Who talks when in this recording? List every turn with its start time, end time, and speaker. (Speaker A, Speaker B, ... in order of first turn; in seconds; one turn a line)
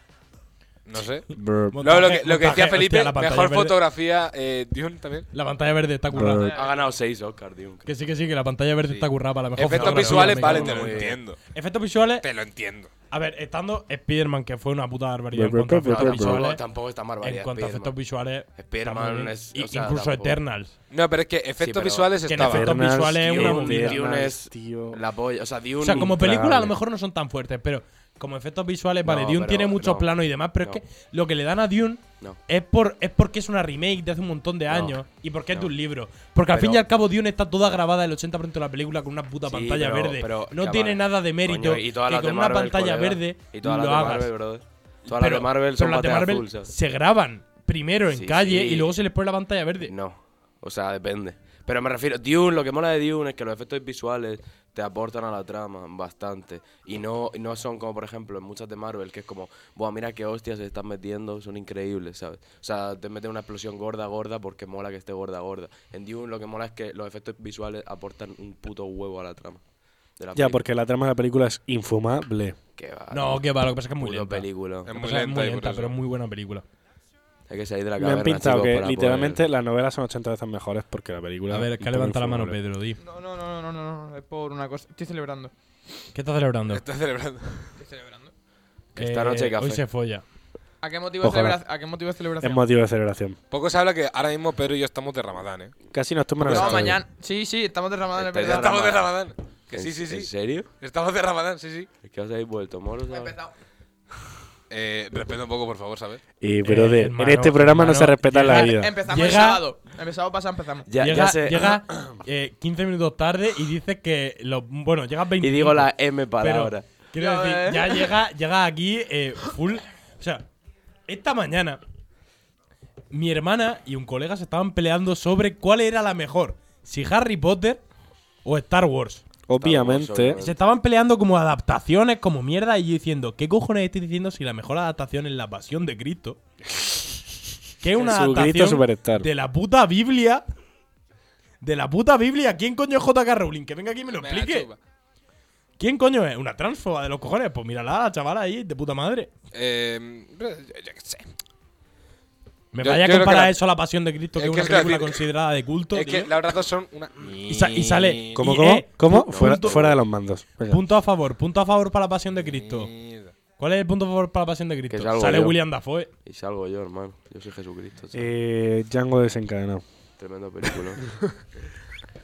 Speaker A: 0.9-5.3
Speaker B: 1.4-1.8
Speaker C: 1.7-3.8
Speaker C: 5.3-6.5
Speaker B: 6.1-6.5
Speaker D: 6.3-6.9
Speaker E: 6.5-7.9
Speaker C: 7.9-12.3
Speaker E: 8.8-11.2
Speaker A: 9.6-11.4
Speaker A: 12.2-12.9
Speaker C: 13.1-16.6
Speaker B: 15.3-16.4
Speaker E: 15.9-17.9
Speaker C: 17.2-20.7
Speaker E: 18.6-20.4
Speaker A: 20.9-23.5
Speaker E: 21.6-22.1
Speaker C: 22.3-24.1
Speaker B: 22.4-25.0
Speaker E: 23.4-26.2
Speaker C: 25.8-44.4
Speaker B: 26.0-26.8
Speaker E: 29.0-30.8
Speaker E: 34.7-35.0
Speaker E: 36.5-36.8
Speaker E: 39.5-46.7
Speaker C: 45.1-49.9
Speaker E: 48.1-48.9
Speaker E: 49.9-69.6
Speaker E: 70.2-70.6
Speaker B: 70.3-72.6
Speaker E: 72.8-74.9
Speaker C: 73.1-76.7
Speaker A: 74.9-76.0
Speaker E: 77.5-79.5
Speaker B: 78.0-82.6
Speaker C: 81.5-83.0
Speaker D: 83.0-85.5
Speaker C: 86.1-86.8
Speaker A: 86.7-87.8
Speaker D: 87.8-88.3
Speaker E: 89.0-89.8
Speaker C: 89.0-90.2
Speaker D: 90.8-92.6
Speaker B: 91.2-91.6
Speaker B: 92.4-93.4
Speaker A: 93.5-95.8
Speaker B: 95.9-97.0
Speaker A: 96.4-96.9
Speaker D: 96.5-99.0
Speaker E: 98.2-99.1
Speaker A: 98.4-101.9
Speaker E: 99.7-100.7
Speaker E: 102.0-103.4
Speaker D: 103.1-103.5
Speaker A: 104.7-106.2
Speaker B: 106.4-108.9
Speaker C: 106.6-109.6
Speaker D: 108.6-110.9
Speaker E: 110.9-111.8
Speaker C: 111.0-120.5
Speaker E: 115.4-116.9
Speaker D: 117.2-118.2
Speaker C: 121.1-121.8
Speaker C: 123.1-127.8
Speaker C: 128.4-129.2
Speaker B: 129.5-130.4
Speaker E: 129.6-130.6
Speaker C: 130.4-136.4
Speaker C: 137.8-140.4
Speaker B: 138.0-139.3
Speaker C: 141.6-144.7
Speaker A: 144.1-144.8
Speaker C: 145.8-149.3
Speaker A: 149.5-151.3
Speaker C: 152.7-156.3
Speaker A: 152.8-153.6
Speaker A: 154.4-155.3
Speaker A: 155.9-158.4
Speaker C: 157.5-160.0
Speaker B: 158.3-160.8
Speaker E: 159.3-160.0
Speaker C: 160.7-162.9
Speaker A: 162.3-163.3
Speaker C: 163.6-166.1
Speaker E: 164.9-165.6
Speaker E: 166.2-168.3
Speaker B: 168.1-169.8
Speaker E: 170.2-171.2